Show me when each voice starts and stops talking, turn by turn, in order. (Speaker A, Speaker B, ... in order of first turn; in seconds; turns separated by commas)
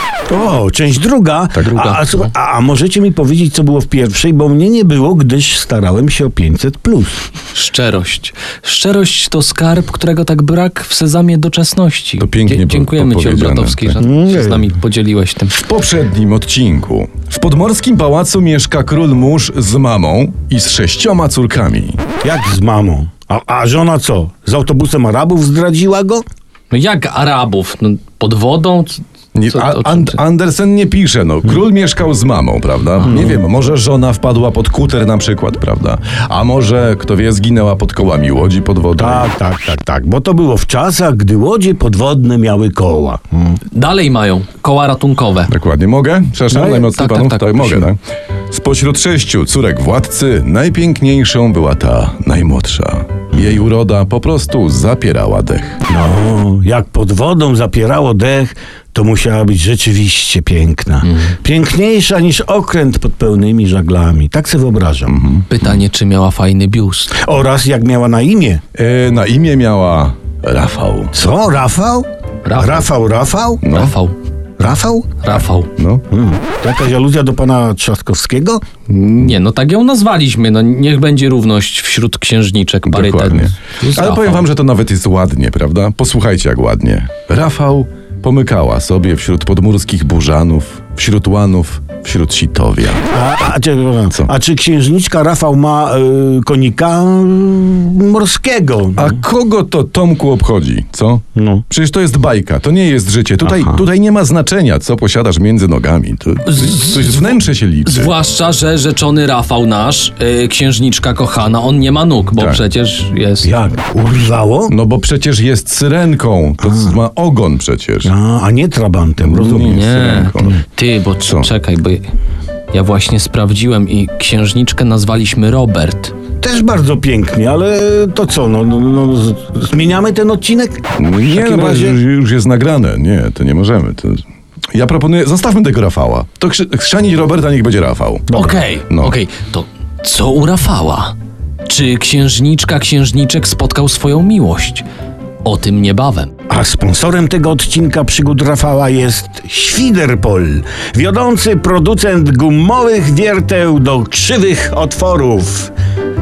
Speaker A: 0.3-7.2, Speaker B: 1.6-2.3, Speaker B: 7.5-15.6, Speaker C: 12.2-14.0, Speaker A: 14.0-14.7, Speaker C: 15.5-22.0, Speaker A: 22.2-26.2, Speaker B: 26.7-30.2, Speaker C: 29.3-39.3, Speaker A: 39.0-43.6, Speaker B: 43.7-45.5, Speaker C: 45.5-48.0, Speaker A: 46.5-46.8, Speaker B: 46.7-47.9, Speaker C: 48.5-55.8, Speaker A: 55.9-65.2, Speaker C: 65.1-65.5, Speaker B: 65.5-67.1, Speaker A: 67.1-68.6, Speaker C: 68.8-71.2, Speaker A: 71.1-73.7, Speaker B: 72.4-72.9, Speaker C: 73.6-74.0, Speaker B: 73.7-74.1, Speaker A: 74.6-75.1, Speaker B: 75.2-75.7, Speaker C: 75.7-76.0, Speaker A: 76.1-78.6, Speaker B: 78.9-84.5, Speaker C: 82.9-93.0, Speaker A: 93.1-99.2, Speaker C: 99.0-108.1, Speaker A: 101.3-101.6, Speaker A: 103.4-103.8, Speaker B: 106.5-113.5, Speaker A: 113.4-114.7, Speaker C: 114.7-118.1, Speaker A: 116.6-117.0, Speaker A: 118.0-120.2, Speaker C: 119.2-120.6, Speaker B: 119.7-122.0, Speaker B: 122.7-126.1, Speaker A: 126.4-132.0, Speaker C: 131.0-138.3, Speaker A: 138.3-138.6, Speaker B: 138.3-141.1, Speaker C: 138.9-139.2, Speaker B: 141.7-144.8, Speaker B: 145.4-146.3, Speaker A: 146.5-155.7